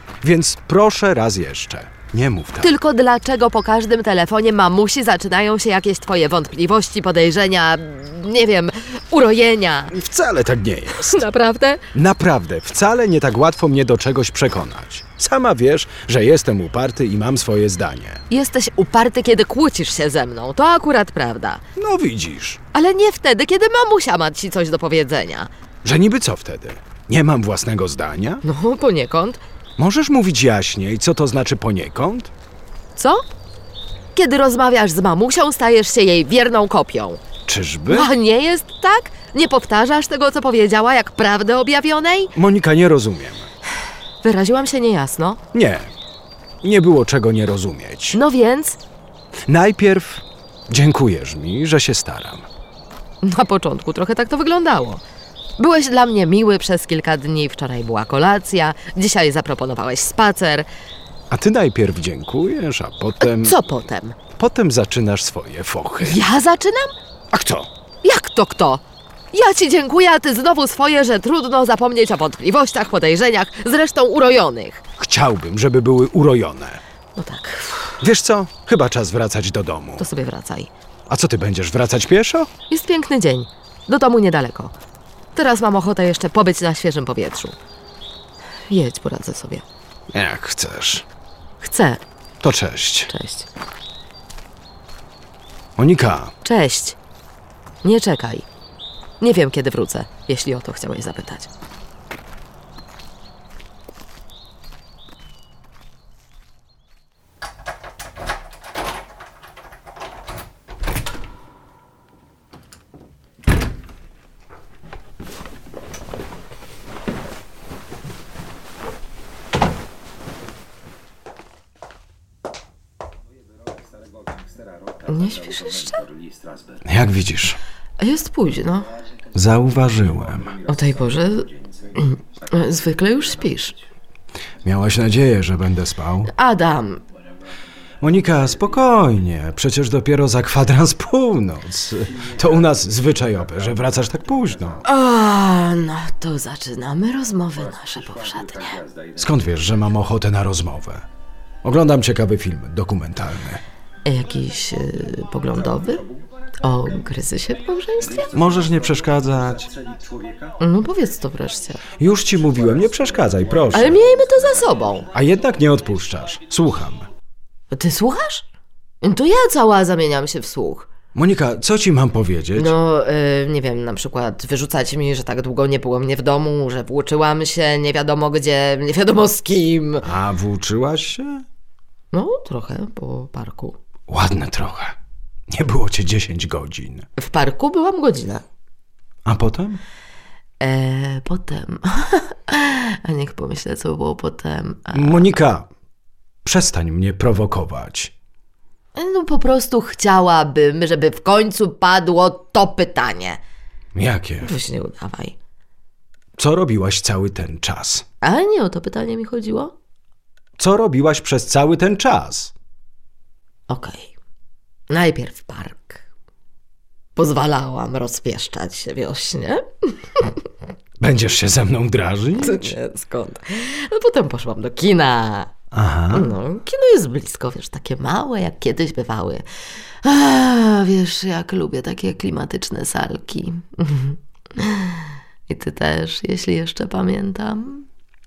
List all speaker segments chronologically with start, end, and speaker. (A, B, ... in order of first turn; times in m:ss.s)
0:00.2-0:02.8 A
0:02.6-0:10.0 B
0:09.9-0:11.2 A
0:10.9-0:11.8 B
0:11.9-0:18.2 A
0:18.3-0:21.6 B
0:21.8-0:22.6 A
0:22.7-0:25.5 B
0:25.8-0:28.4 A
0:28.4-0:29.4 B
0:29.8-0:32.3 A
0:33.0-0:33.2 B
0:34.2-0:37.2 B
0:37.5-0:38.1 A
0:37.9-0:42.3 B
0:42.4-0:43.5 A
0:44.2-0:45.4 B
0:45.5-0:45.9 A
0:46.6-0:48.2 A
0:48.1-0:48.8 B
0:49.5-0:52.5 A
0:53.2-0:55.0 B
0:55.6-1:00.7 B
1:01.3-1:03.6 A
1:03.2-1:04.2 B
1:04.4-1:06.2 A
1:06.0-1:06.9 B
1:07.3-1:07.7 A
1:08.0-1:14.8 B
1:15.0-1:16.8 A
1:17.2-1:18.0 B
1:18.0-1:20.1 A
1:20.0-1:20.7 B
1:21.1-1:22.5 A
1:22.7-1:24.8 B
1:25.4-1:27.6 B
1:28.7-1:29.6 B
1:30.1-1:31.1 A
1:31.6-1:32.0 B
1:32.4-1:33.1 A
1:33.1-1:33.5 B
1:35.8-1:36.3 A
1:36.4-1:37.0 B
1:37.8-1:38.5 B
1:39.2-1:41.5 B
2:05.0-2:06.1 B
2:06.8-2:07.6 A
2:08.0-2:09.0 B
2:09.3-2:10.6 A
2:10.7-2:13.8 B
2:14.6-2:16.3 A
2:16.3-2:17.0 B
2:18.0-2:24.8 A
2:24.8-2:28.8 B
2:29.2-2:31.1 A
2:31.6-2:33.6 A
2:34.0-2:36.1 B
2:36.6-2:38.3 B
2:38.3-2:39.7 A
2:40.6-2:41.8 B
2:42.0-2:44.0 A
2:43.7-2:45.1 B
2:45.1-2:47.1 A
2:47.7-2:48.5 B
2:49.0-2:50.9 B
2:51.1-2:52.8 A
2:52.6-3:00.1 B
3:00.0-3:01.4 A
3:02.1-3:03.8 B
3:04.1-3:05.0 A
3:05.5-3:07.1 A
3:07.2-3:08.4 B
3:09.3-3:09.8 A
3:10.6-3:15.3 B
3:14.9-3:15.7 A
3:16.4-3:18.1 A
3:18.9-3:23.4 B
3:24.0-3:24.5 A
3:24.4-3:25.4 B
3:26.4-3:28.0 A
3:28.2-3:29.7 B
3:30.6-3:32.5 A
3:33.7-3:34.1 B
3:34.9-3:36.0 B
3:37.2-3:40.4 B
3:41.0-3:42.7 A
3:42.4-3:45.5 B
3:45.7-3:46.4 A
3:46.1-3:49.5 B
3:50.0-3:57.9 B